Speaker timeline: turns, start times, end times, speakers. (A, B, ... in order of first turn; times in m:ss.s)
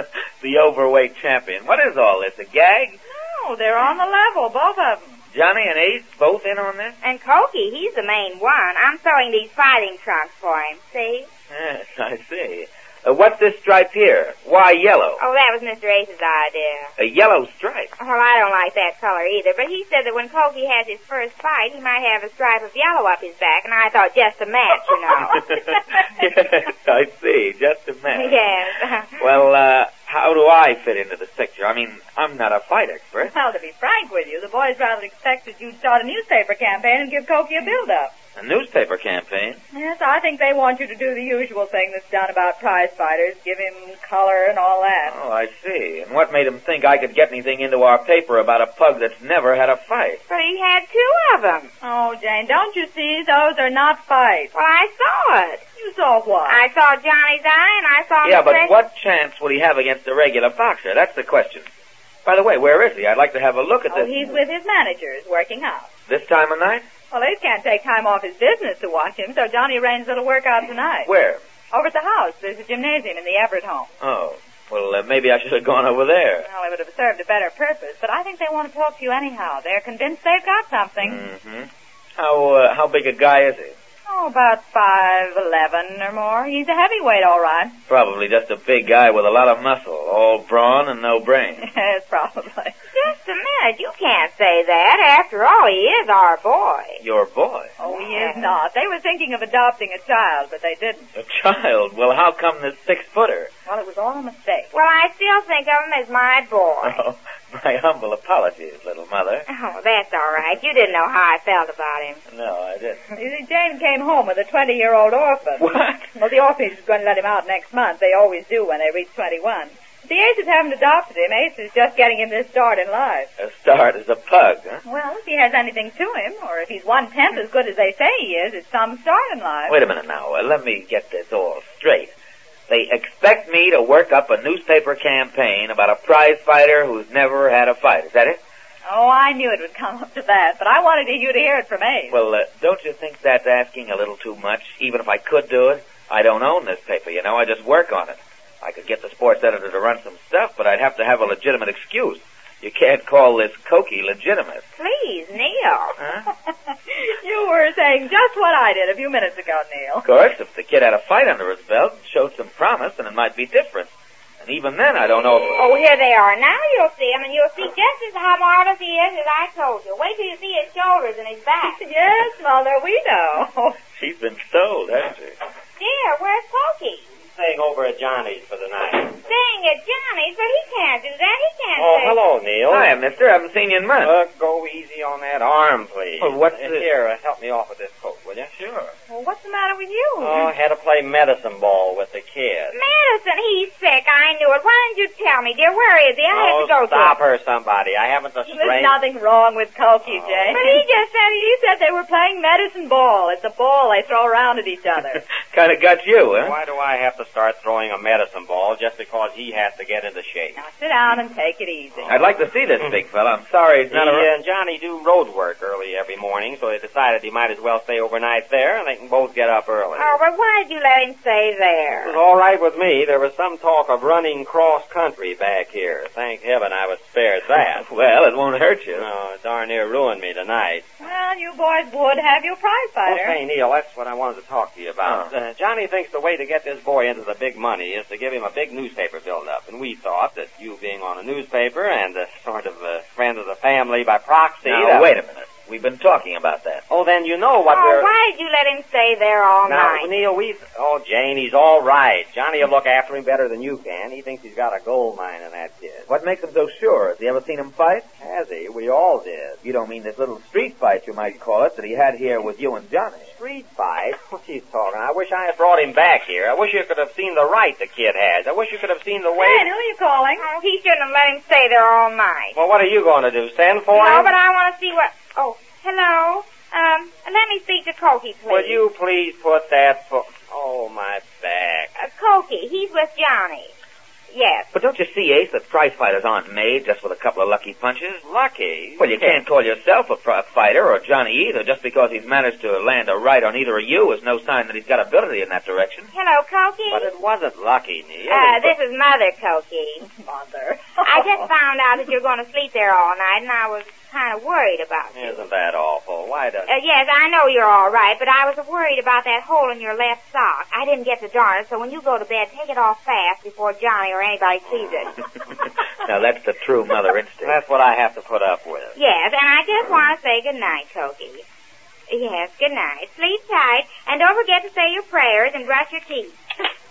0:00.4-0:03.0 A
0:03.1-0:05.2 B
0:05.3-0:07.0 A
0:07.0-0:11.3 C
0:11.5-0:15.2 A
0:15.2-0:16.9 C
0:17.0-0:17.9 A
0:18.0-0:25.5 C
0:25.4-0:28.5 A
0:28.1-0:29.2 C
0:29.2-0:33.3 A
0:33.2-0:38.1 B
0:38.4-0:39.6 A
0:39.7-0:45.2 B
0:45.0-0:50.2 A
0:50.3-0:51.7 C
0:51.8-0:54.5 B
0:54.5-0:55.6 C
0:55.8-0:56.6 B
0:56.5-0:58.8 C
0:58.2-1:01.7 A
1:02.2-1:04.4 A
1:03.9-1:05.9 B
1:06.1-1:06.8 A
1:07.1-1:11.1 B
1:11.0-1:11.4 A
1:11.7-1:13.9 B
1:14.0-1:16.4 A
1:16.4-1:21.2 B
1:21.0-1:23.7 A
1:24.1-1:27.8 B
1:27.9-1:31.6 A
1:31.6-1:32.7 B
1:32.9-1:37.0 C
1:37.0-1:37.7 A
1:37.8-1:41.1 B
1:37.8-1:38.6 C
1:41.2-1:43.5 A
1:43.6-1:44.7 B
1:44.7-1:47.0 C
1:46.8-1:49.5 A
1:49.5-1:52.2 C
1:52.3-1:53.0 A
1:53.1-2:03.3 B
1:55.6-1:56.1 A
2:03.4-2:04.8 A
2:04.8-2:09.8 B
2:09.7-2:12.1 A
2:12.7-2:18.4 A
2:18.8-2:22.2 B
2:22.1-2:34.6 A
2:34.8-2:35.9 C
2:36.4-2:40.0 B
2:40.0-2:43.9 A
2:44.4-2:45.6 A
2:45.6-2:51.8 C
2:51.6-2:53.8 B
2:53.9-2:55.4 A
2:55.8-2:57.0 C
2:57.3-2:59.2 D
2:59.2-3:02.2 C
3:01.8-3:02.9 D
3:02.7-3:04.1 A
3:04.0-3:08.5 D
3:06.2-3:06.8 A
3:08.5-3:08.9 A
3:09.1-3:10.5 B
3:10.2-3:12.8 D
3:12.7-3:17.2 C
3:16.3-3:19.0 D
3:18.5-3:25.2 B
3:20.0-3:20.6 D
3:20.5-3:21.0 C
3:25.5-3:26.5 A
3:26.4-3:30.6 D
3:30.6-3:32.2 B
3:32.1-3:34.3 A
3:33.9-3:40.2 D
3:40.0-3:42.2 C
3:42.0-3:47.8 D
3:47.7-3:49.1 A
3:48.9-3:51.0 D
3:51.0-3:53.4 B
3:53.0-4:05.1 D
4:04.6-4:06.8 A
4:06.9-4:08.1 D
4:07.7-4:10.1 C
4:09.7-4:16.1 D
4:16.1-4:18.0 A
4:18.2-4:19.6 D
4:19.6-4:23.3 A
4:23.4-4:29.7 D
4:29.4-4:30.5 B
4:30.4-4:32.6 C
4:32.5-4:34.3 D
4:33.9-4:38.8 C
4:38.5-4:41.9 D
4:42.0-4:43.7 C
4:44.3-4:44.7 C
4:44.7-4:48.2 A
4:48.2-4:49.4 D
4:49.0-4:56.1 A
4:56.1-4:57.1 C
4:56.9-4:58.7 D
4:58.3-5:00.0 C
5:00.0-5:01.5 B
5:01.0-5:05.4 C
5:05.1-5:06.7 D
5:06.7-5:15.2 C
5:14.7-5:15.1 D
5:15.5-5:17.6 A
5:17.4-5:18.9 D
5:18.9-5:21.4 C
5:22.1-5:26.4 C